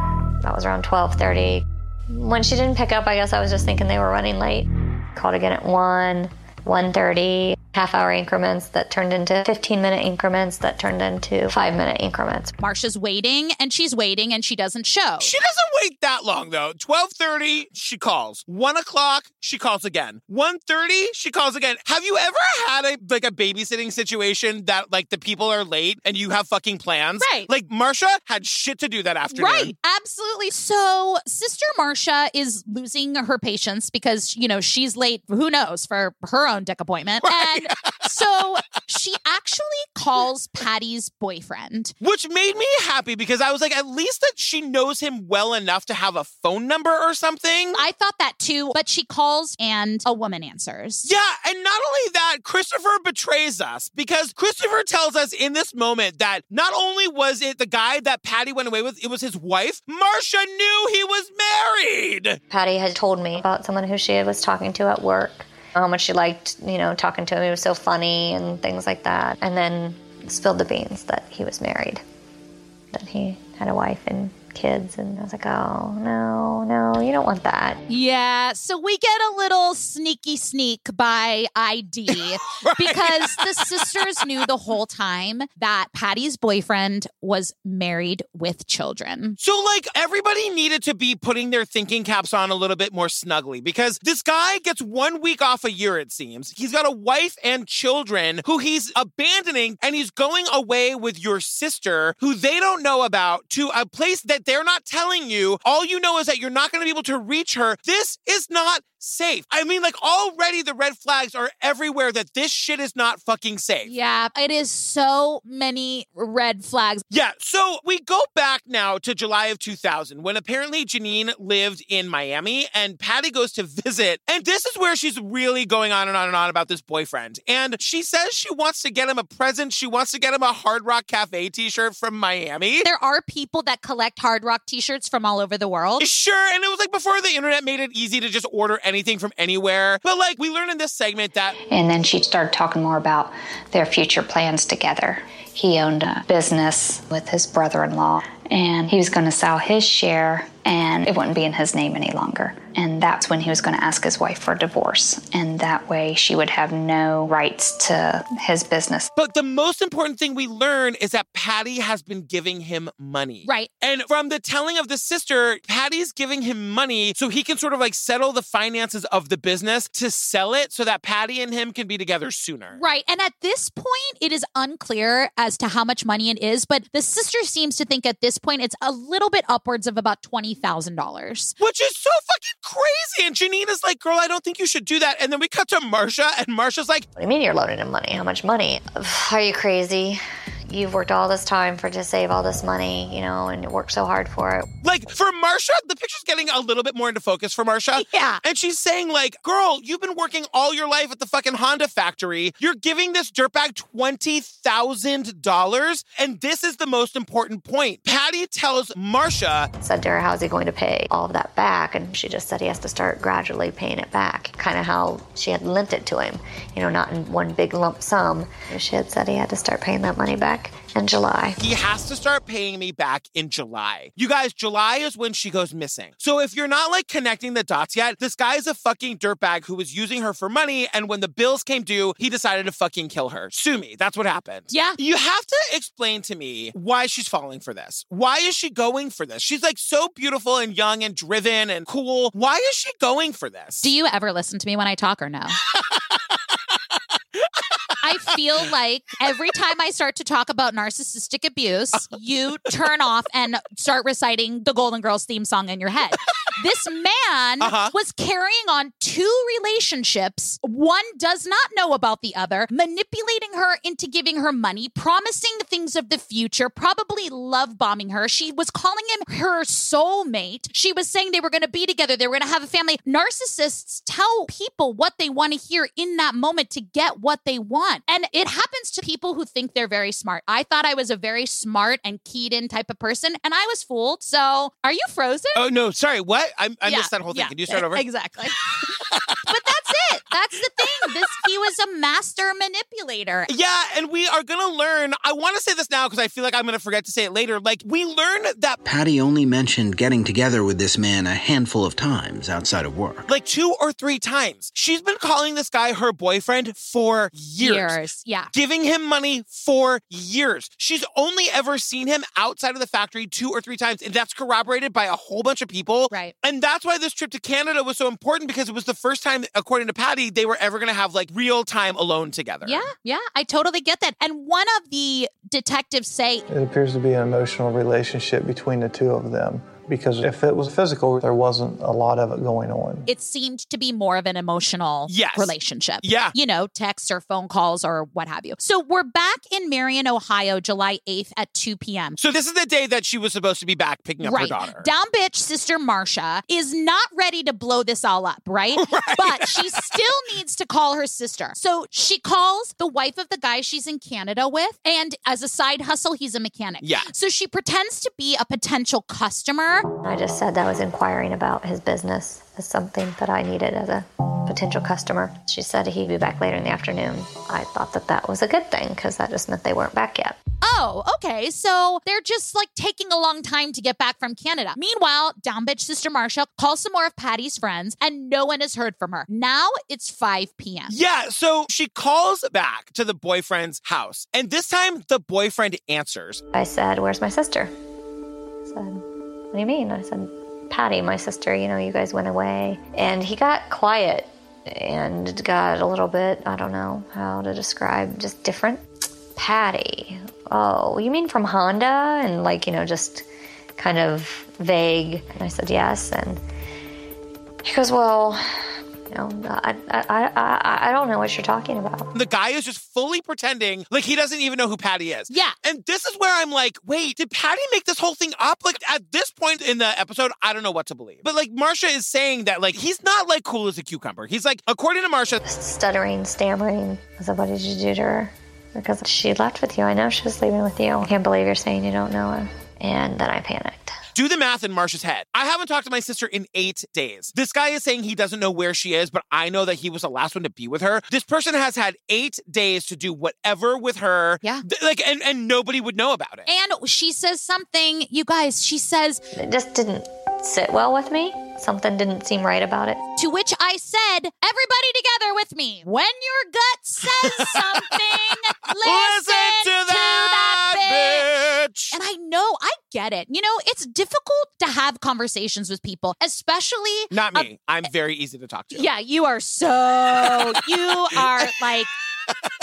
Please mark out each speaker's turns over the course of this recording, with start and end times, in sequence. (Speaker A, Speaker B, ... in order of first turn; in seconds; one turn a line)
Speaker A: 0.4-12.6
Speaker B: 12.6-15.3
Speaker C: 15.2-29.7
Speaker B: 27.2-27.5
Speaker B: 29.3-41.9
Speaker C: 37.3-38.0
Speaker C: 42.0-47.8
Speaker B: 47.8-51.1
Speaker C: 51.0-62.4
Speaker A: 62.5-72.0
Speaker A: 72.9-77.8
Speaker B: 77.9-89.4
Speaker C: 82.2-84.0
Speaker C: 89.4-113.9
Speaker B: 113.8-117.0
Speaker C: 117.1-132.9
Speaker B: 132.8-136.0
Speaker C: 136.0-141.6
Speaker D: 141.7-159.1
Speaker C: 159.2-172.8
Speaker B: 172.8-181.5
Speaker C: 181.6-187.1
Speaker A: 187.2-194.7
Speaker C: 194.8-209.7
Speaker B: 198.0-198.4
Speaker A: 209.8-221.6
Speaker C: 221.6-243.9
Speaker B: 234.7-235.0
Speaker B: 243.8-245.6
Speaker C: 247.5-247.9
Speaker B: 248.0-285.6
Speaker C: 257.6-257.9
Speaker C: 285.6-288.0
Speaker B: 286.8-293.5
Speaker C: 289.0-289.4
Speaker C: 293.5-298.8
Speaker E: 298.8-303.3
Speaker C: 303.3-308.0
Speaker B: 307.6-308.5
Speaker C: 308.5-322.9
Speaker B: 322.6-326.4
Speaker F: 326.5-333.1
Speaker B: 333.1-342.2
Speaker C: 335.1-336.4
Speaker C: 342.2-344.9
Speaker B: 344.2-359.9
Speaker C: 348.8-350.0
Speaker C: 356.8-357.1
Speaker A: 360.0-370.4
Speaker B: 370.6-380.9
Speaker C: 380.9-386.4
Speaker A: 386.5-387.7
Speaker A: 388.6-398.8
Speaker A: 399.4-403.3
Speaker A: 403.8-406.4
Speaker A: 407.6-412.1
Speaker C: 412.1-425.4
Speaker B: 415.3-415.6
Speaker A: 425.4-434.0
Speaker C: 434.1-446.5
Speaker B: 446.5-449.2
Speaker A: 449.3-453.0
Speaker B: 453.2-461.3
Speaker C: 457.2-457.8
Speaker C: 458.8-461.9
Speaker B: 461.9-467.5
Speaker C: 467.1-468.9
Speaker B: 468.7-471.9
Speaker C: 470.2-470.5